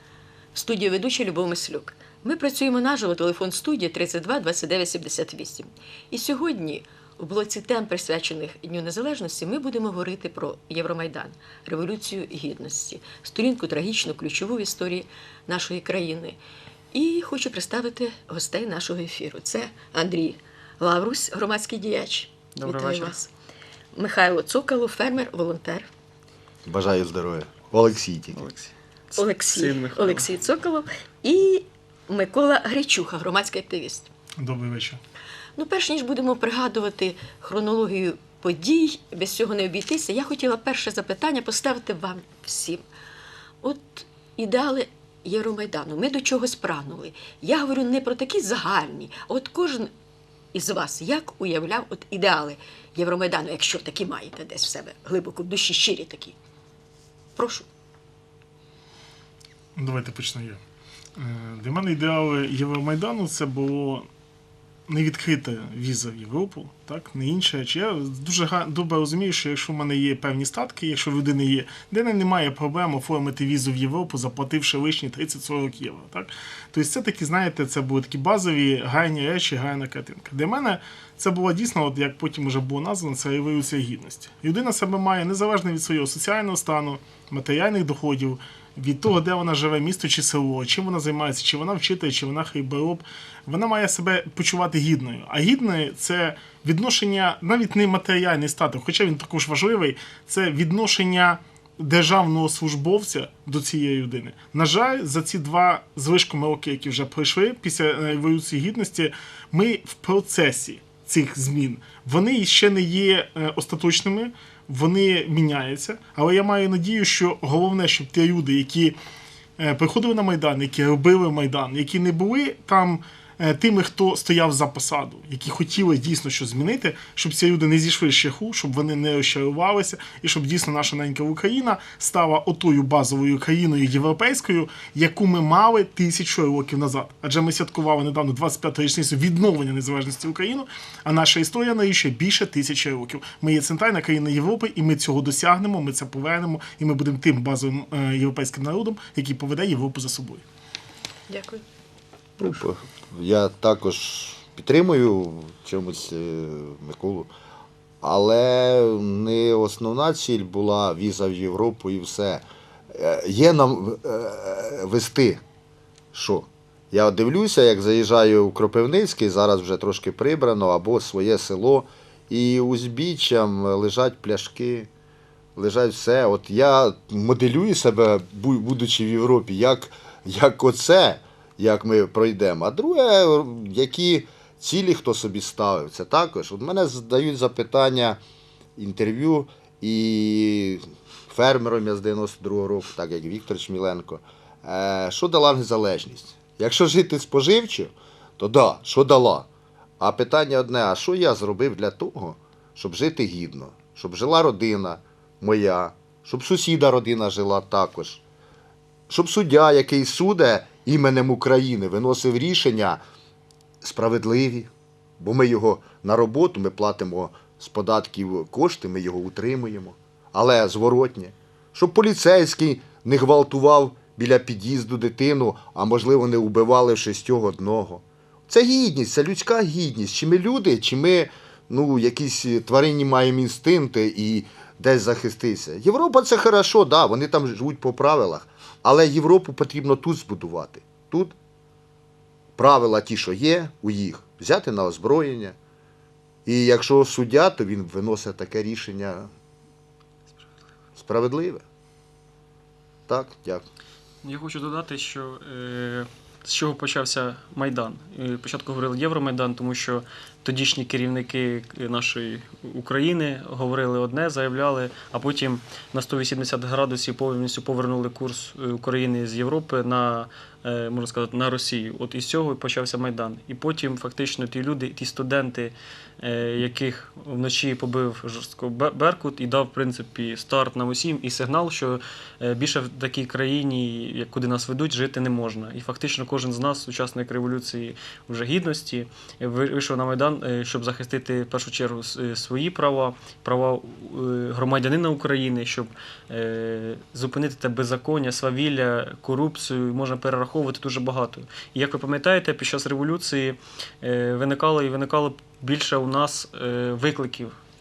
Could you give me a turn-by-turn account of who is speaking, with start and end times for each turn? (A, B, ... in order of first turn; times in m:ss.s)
0:00.5-0:16.4 A
0:16.9-0:23.3 A
0:22.6-0:23.2 B
0:23.9-0:25.9 A
0:26.6-0:28.4 C
0:28.3-0:30.3 B
0:29.2-0:34.1 A
0:34.4-0:35.0 D
0:35.6-0:42.8 A
0:43.6-0:49.9 A
0:50.5-0:56.4 A
0:57.4-0:57.6 A
0:59.8-1:00.6 D
1:01.2-1:04.1 D
1:04.9-1:59.0 D
1:59.6-2:30.4 D
2:31.3-2:31.6 A
2:32.4-2:37.3 C
2:38.0-2:45.4 C
2:46.1-2:54.9 C
2:55.6-3:08.2 C
3:08.8-3:19.5 C
3:20.0-3:28.2 C
3:29.1-3:33.0 C
3:33.8-4:01.3 C
4:02.6-4:05.6 C
4:06.4-4:09.3 C
4:11.0-4:11.6 C
4:13.1-4:13.6 C
4:14.2-5:07.5 B